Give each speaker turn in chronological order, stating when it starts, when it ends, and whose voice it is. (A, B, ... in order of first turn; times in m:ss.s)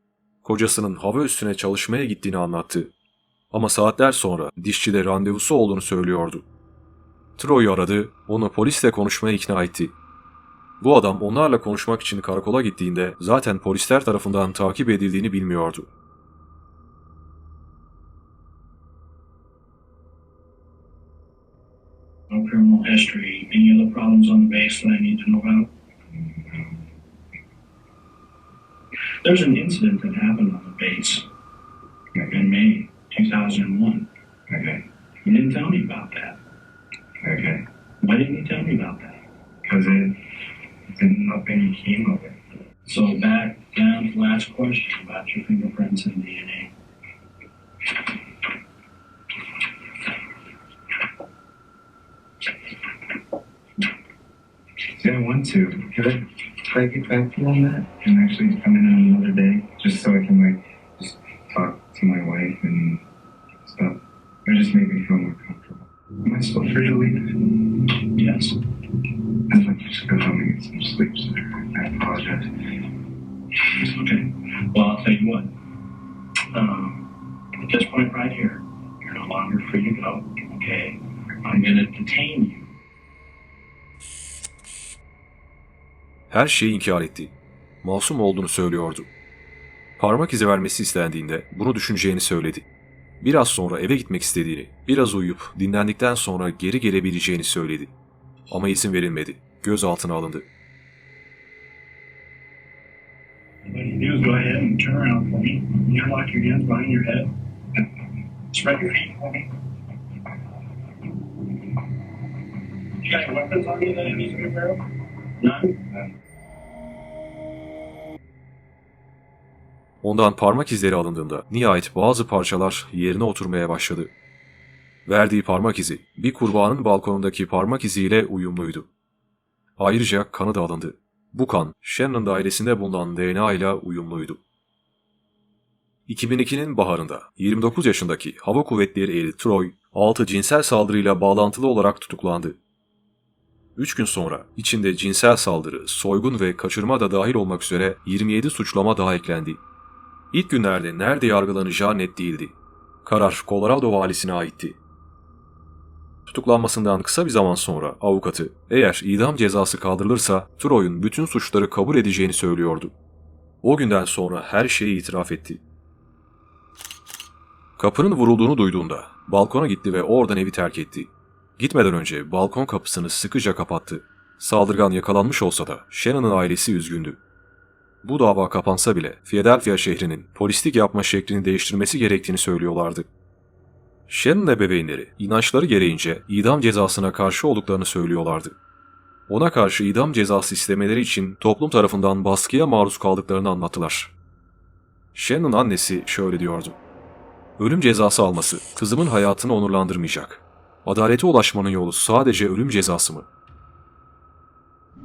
0:00.4-0:02.9 A
0:03.5-0:06.4 A
0:07.4-0:09.9 A
0:10.8-0:15.9 A
0:22.3-0:25.7 B
0:26.1-0:26.8 C
0:29.2-0:31.3 B
0:32.1-0:32.5 C
0:32.3-0:34.1 B
0:34.5-0:34.8 C
0:35.2-0:36.4 B
0:37.2-0:37.6 C
0:38.0-0:39.2 B
0:39.6-0:40.2 C
0:40.9-0:42.4 C
0:42.8-0:46.7 B
0:54.9-1:03.0 C
1:03.6-1:07.8 C
1:08.1-1:08.6 B
1:09.5-1:12.5 C
1:13.6-1:15.5 B
1:16.5-1:22.7 B
1:26.3-1:29.1 A
1:30.0-1:32.7 A
1:33.2-1:37.9 A
1:38.5-1:40.5 A
1:43.6-1:47.3 B
1:48.5-1:49.5 B
1:53.0-1:56.0 B
2:00.0-2:04.1 A
2:05.0-2:08.9 A
2:09.8-2:14.4 A
2:16.1-2:22.6 A
2:23.8-2:29.6 A
2:30.3-2:34.8 A
2:36.3-2:42.9 A
2:43.6-2:45.6 A
2:47.8-2:57.2 A
2:58.0-3:03.1 A
3:04.1-3:08.6 A
3:09.3-3:14.1 A
3:15.1-3:16.8 A
3:17.6-3:23.3 A